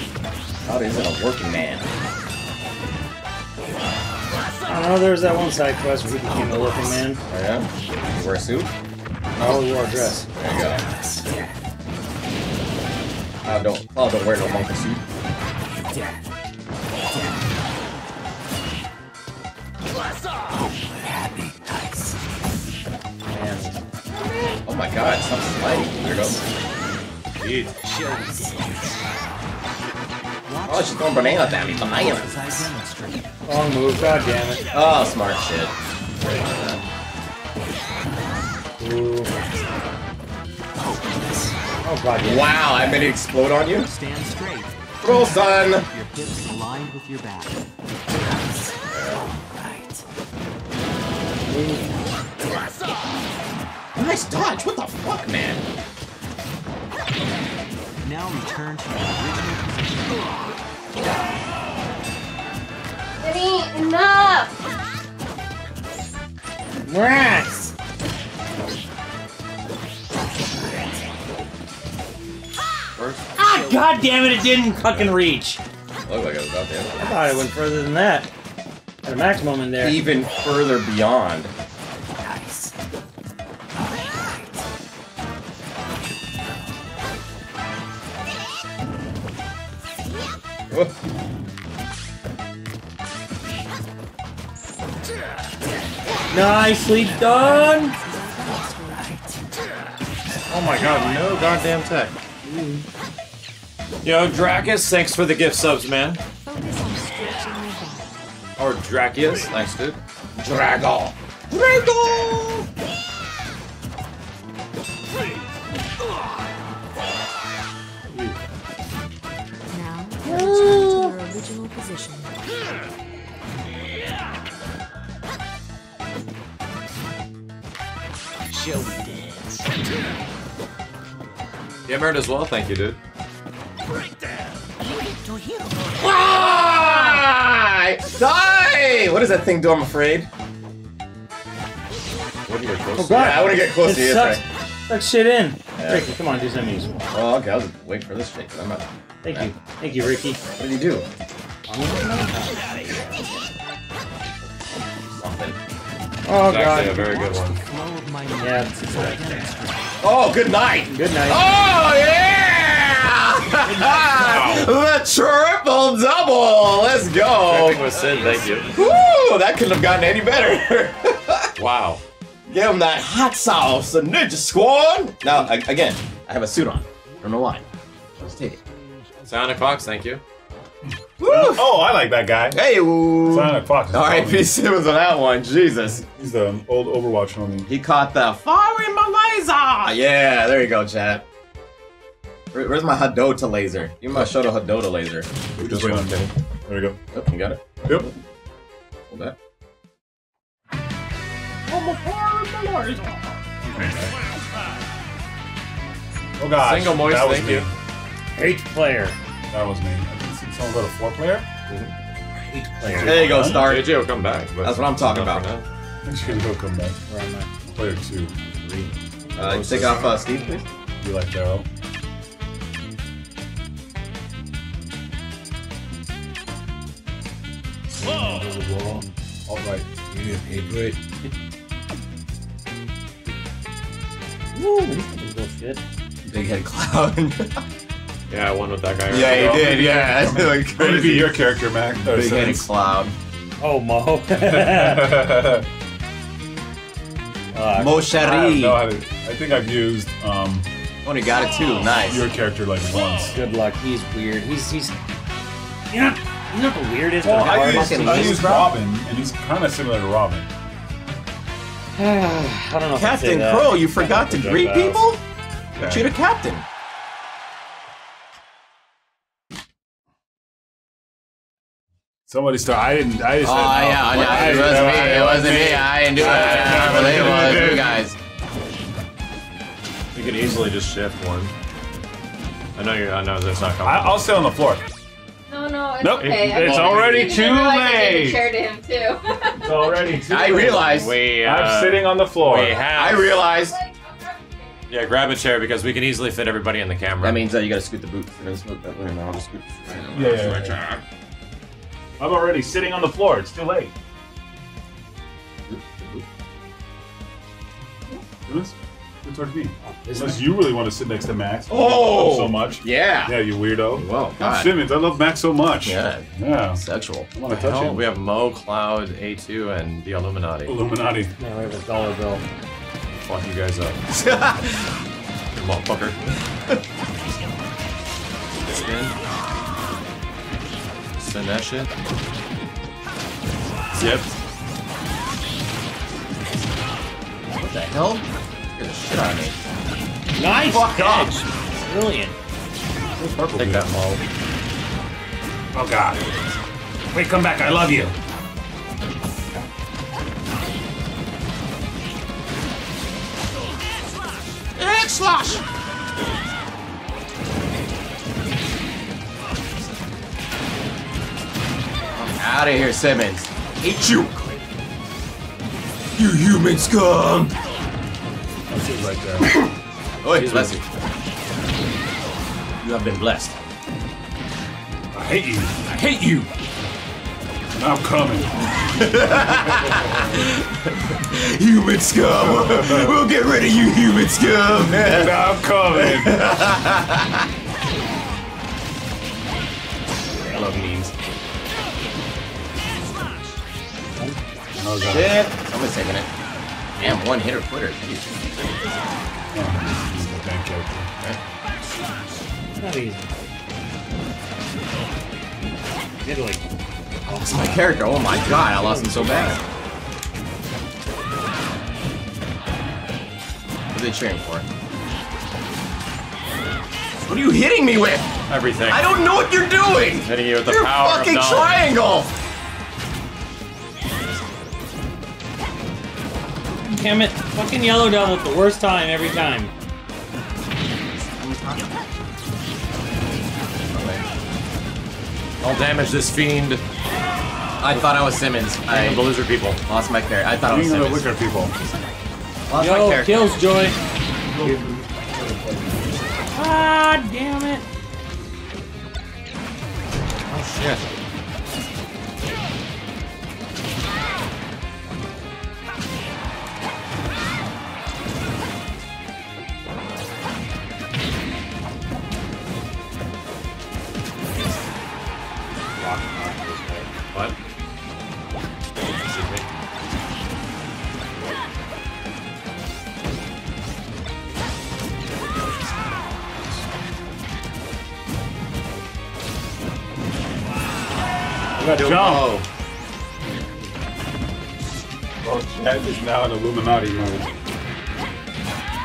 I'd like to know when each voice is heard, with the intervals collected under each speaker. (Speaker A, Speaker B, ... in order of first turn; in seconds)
Speaker A: 0.7-1.9, 7.3-8.7, 10.4-10.8, 13.4-15.0, 24.7-26.4, 30.7-32.7, 34.7-36.8, 42.2-43.9, 45.0-45.9, 48.9-49.2, 54.0-55.6, 76.0-77.0, 79.8-81.5, 110.4-112.7, 136.0-140.3, 143.0-144.4, 145.8-146.1, 147.1-149.5, 150.6-151.1, 155.2-155.6, 160.0-167.9, 168.7-171.5, 172.5-177.7, 178.2-178.6, 181.2-181.8, 182.5-186.1, 187.7-191.2, 192.5-195.3, 197.1-198.2, 199.1-199.4, 201.7-203.4, 213.0-214.0, 214.6-215.5, 219.4-220.7, 234.5-235.1, 236.2-237.6, 239.1-241.4, 242.1-243.1, 247.7-248.8, 251.1-252.3, 257.2-258.7, 263.0-265.2, 265.8-266.6, 273.4-278.2, 290.3-291.2, 292.9-293.8, 297.2-301.0, 305.7-306.2, 311.7-314.7, 315.8-317.3, 324.2-324.7, 326.3-326.8, 337.6-339.6, 340.5-341.4, 354.8-355.6, 362.2-364.5, 366.2-367.6, 369.4-369.7, 370.2-370.9, 372.8-373.6, 378.7-385.4, 385.9-387.5, 390.6-391.1, 395.0-396.3, 397.0-398.4, 407.4-409.6, 413.9-414.7, 417.2-418.3, 418.9-422.3, 424.2-424.7, 431.3-431.9, 433.9-434.2, 437.8-439.2, 439.8-441.3, 442.7-443.6
Speaker B: 4.7-7.2, 9.4-10.3, 23.3-23.8, 27.4-27.7, 33.5-34.7, 38.8-39.3, 41.8-42.6, 51.5-51.9, 66.8-67.7, 73.4-75.6, 77.0-78.3, 79.0-80.0, 96.3-98.0, 102.4-102.8, 118.1-118.4, 120.2-121.2, 142.9-146.9, 149.2-150.4, 151.7-152.6, 156.3-157.1, 158.4-159.2, 160.9-161.5, 208.3-209.2, 212.4-213.4, 217.1-217.5, 218.4-219.7, 230.1-231.0, 235.1-235.8, 243.6-245.3, 247.5-248.5, 253.3-254.9, 255.9-258.7, 261.9-265.1, 309.8-310.5, 321.4-322.4, 340.4-342.4, 402.8-403.5, 406.2-409.6, 426.8-429.7, 442.8-444.0, 444.6-444.9, 446.5-447.9, 465.9-467.1
Speaker C: 20.8-22.2, 27.8-29.0, 30.4-33.5, 41.1-41.5, 43.8-45.0, 45.8-48.9, 49.4-50.0, 58.0-60.3, 73.6-73.9, 82.2-82.7, 128.5-129.7, 135.1-136.0, 157.0-159.9, 167.9-168.7
Speaker D: 63.2-64.5, 285.5-290.1, 293.7-294.8
Speaker E: 73.0-73.3, 100.5-102.2, 104.0-106.2, 108.6-110.0, 131.9-133.0, 142.5-143.6, 156.4-157.6, 167.4-168.8, 171.6-172.0, 179.2-180.2, 195.6-196.3, 206.6-207.7, 213.4-215.7, 238.3-239.9, 276.1-277.9, 280.1-281.5, 282.8-284.3, 286.2-287.1, 290.3-293.8, 294.9-297.4, 317.5-320.8, 323.2-324.6, 325.6-326.2, 328.6-329.1, 331.2-331.9, 333.9-334.3, 343.6-344.2, 418.5-419.2, 420.2-421.8, 435.6-436.8, 438.9-439.8, 450.5-451.1, 469.2-469.7, 481.8-482.6
Speaker F: 97.2-99.5, 106.4-108.2, 119.7-122.4
Speaker G: 163.7-164.7, 181.2-182.6, 183.2-184.5, 186.0-187.7, 195.6-197.0, 197.9-198.1, 203.6-204.2, 206.4-207.7, 209.5-211.5, 212.8-213.8, 216.1-217.0, 217.7-218.4, 219.4-220.2, 221.0-221.7, 227.9-229.9, 239.1-242.7, 244.3-245.7, 248.2-250.7, 252.1-253.3, 257.2-260.5, 265.8-266.1, 272.3-278.0, 283.8-284.9, 286.0-288.5, 289.6-292.9, 300.1-300.8, 302.2-303.9, 308.5-316.8, 317.3-318.1, 320.6-321.3, 343.2-344.0, 345.7-346.2, 347.1-348.2, 368.7-369.6, 375.1-375.9, 377.8-380.5, 382.3-383.2, 384.9-386.5, 394.8-395.4, 399.5-401.1, 440.7-441.7, 444.5-446.2, 481.8-482.6, 485.4-487.5